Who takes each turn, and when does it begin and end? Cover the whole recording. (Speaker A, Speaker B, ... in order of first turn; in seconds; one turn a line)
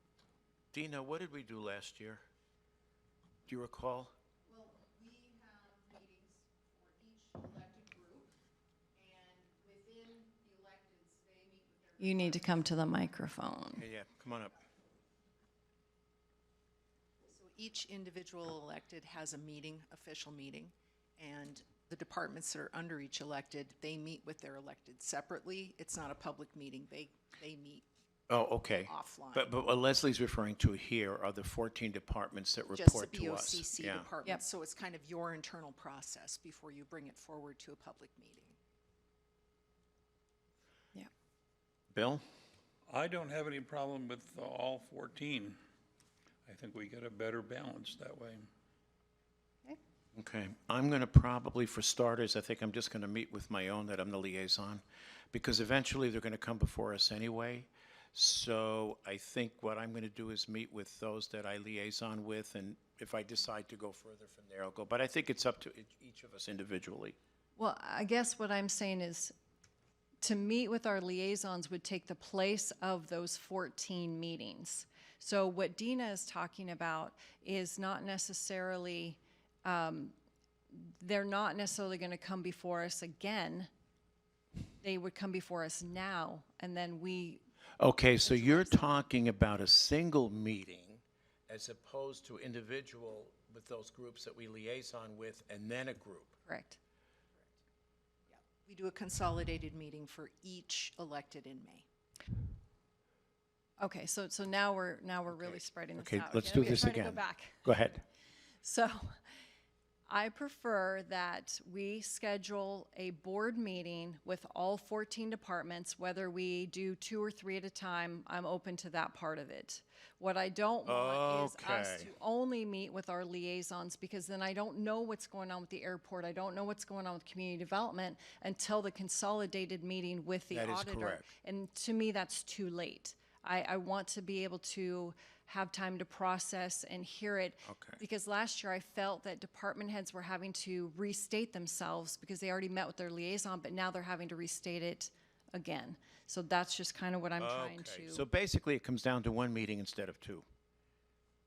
Speaker A: 0.7-2.2
Speaker A: 3.5-4.2
Speaker B: 4.5-8.3
Speaker B: 8.9-12.7
Speaker C: 12.0-13.8
Speaker A: 13.8-14.6
Speaker B: 17.3-27.9
Speaker A: 28.3-34.1
Speaker B: 28.9-29.5
Speaker B: 32.7-38.6
Speaker A: 41.9-42.2
Speaker D: 42.9-45.6
Speaker D: 46.5-48.5
Speaker A: 50.1-67.2
Speaker C: 67.6-69.3
Speaker C: 70.2-80.1
Speaker C: 80.7-83.7
Speaker C: 84.8-87.4
Speaker A: 87.8-96.4
Speaker C: 88.2-88.8
Speaker C: 96.5-96.8
Speaker B: 98.3-101.9
Speaker C: 103.8-107.7
Speaker A: 105.3-108.0
Speaker C: 108.6-109.2
Speaker C: 110.1-148.2
Speaker A: 120.9-122.1
Speaker A: 130.5-131.3
Speaker A: 137.7-138.0
Speaker A: 147.4-150.4